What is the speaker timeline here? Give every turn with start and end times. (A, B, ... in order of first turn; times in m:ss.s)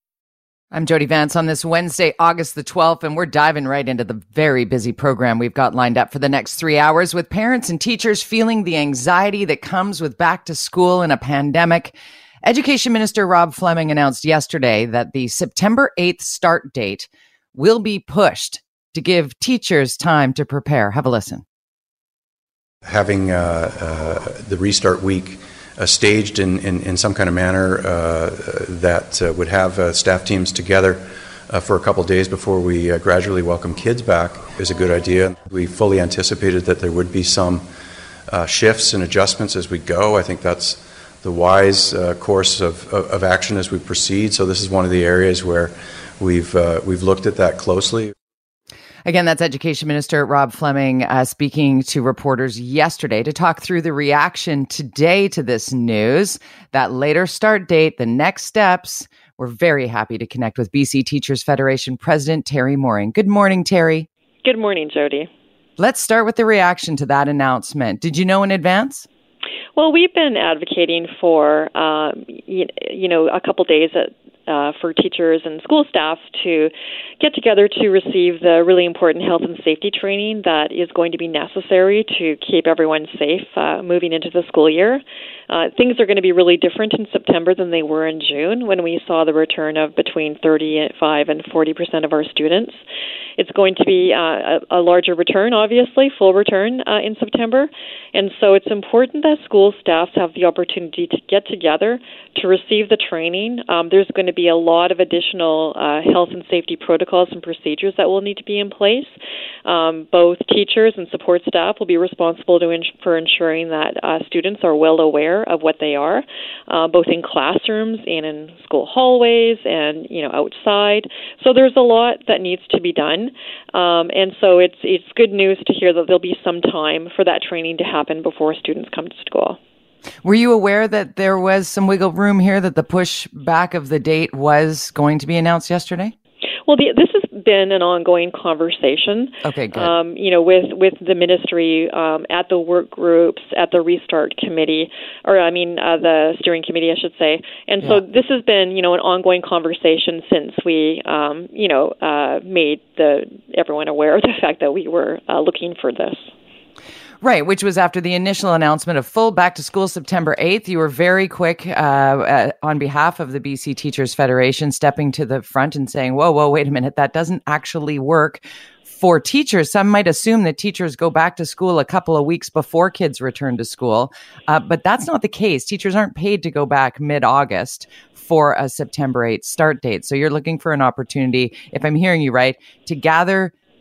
0:00.7-0:21.4 A
0:22.8-0:37.6 B
0:38.3-0:48.1 B
0:49.0-1:04.1 A
1:04.4-1:05.3 C
1:05.8-1:09.1 A
1:09.8-1:32.8 C
1:33.4-2:09.6 C
2:10.2-2:16.1 A
2:16.7-2:36.3 C
2:19.4-2:19.9 A
2:37.2-3:03.5 A